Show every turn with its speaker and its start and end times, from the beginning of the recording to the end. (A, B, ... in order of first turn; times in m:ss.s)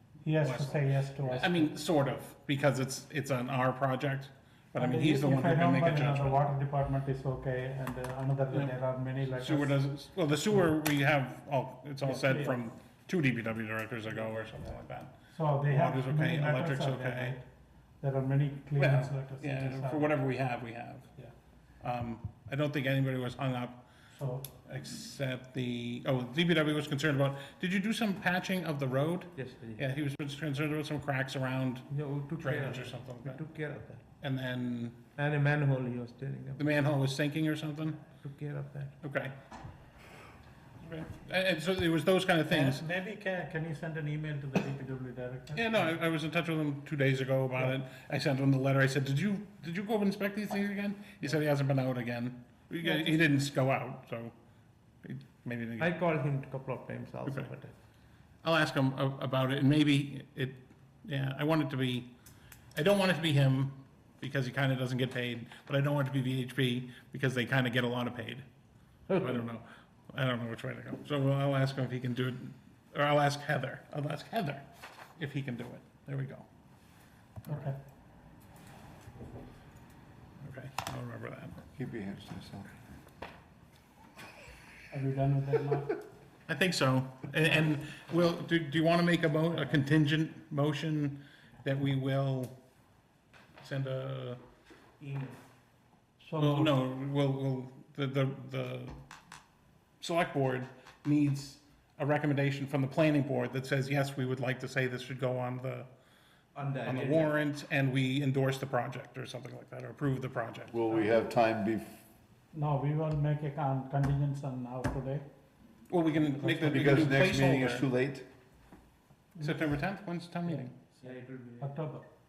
0:00.2-0:01.7 A
0:00.3-0:06.5 B
0:04.8-0:09.8 A
0:08.5-0:15.1 B
0:12.0-0:12.6 A
0:15.3-0:17.4 A
0:15.6-0:17.4 B
0:18.0-0:20.2 A
0:18.8-0:21.1 B
0:21.8-0:23.8 B
0:24.1-0:24.4 A
0:24.6-0:33.4 B
0:29.4-0:29.8 C
0:31.9-0:34.0 C
0:34.2-0:35.0 B
0:35.2-0:36.8 C
0:36.6-0:38.0 B
0:38.1-0:39.0 C
0:39.0-0:39.3 B
0:40.8-0:42.8 B
0:42.5-0:45.9 A
0:45.5-0:54.3 B
0:52.8-0:53.2 A
0:55.0-0:56.0 B
0:55.8-0:57.7 C
0:57.2-0:57.5 B
0:58.4-1:02.1 B
1:02.7-1:08.4 B
1:09.1-1:09.4 C
1:09.2-1:14.6 B
1:15.2-1:16.5 B
1:17.5-1:17.8 A
1:20.4-1:21.6 B
1:21.7-1:22.7 D
1:24.9-1:26.0 A
1:26.5-1:32.5 B
1:33.6-1:34.4 B
1:35.0-1:35.4 C
1:36.2-1:36.7 A
1:36.4-1:39.0 B
1:40.0-1:45.9 B
1:46.5-1:47.3 C
1:46.8-1:50.8 B
1:50.7-1:52.0 D
1:52.5-1:55.2 A
1:55.9-1:57.8 B
1:56.2-1:57.2 A
1:56.6-1:58.2 D
1:59.4-2:00.7 B
2:00.4-2:02.0 A
2:01.0-2:01.7 C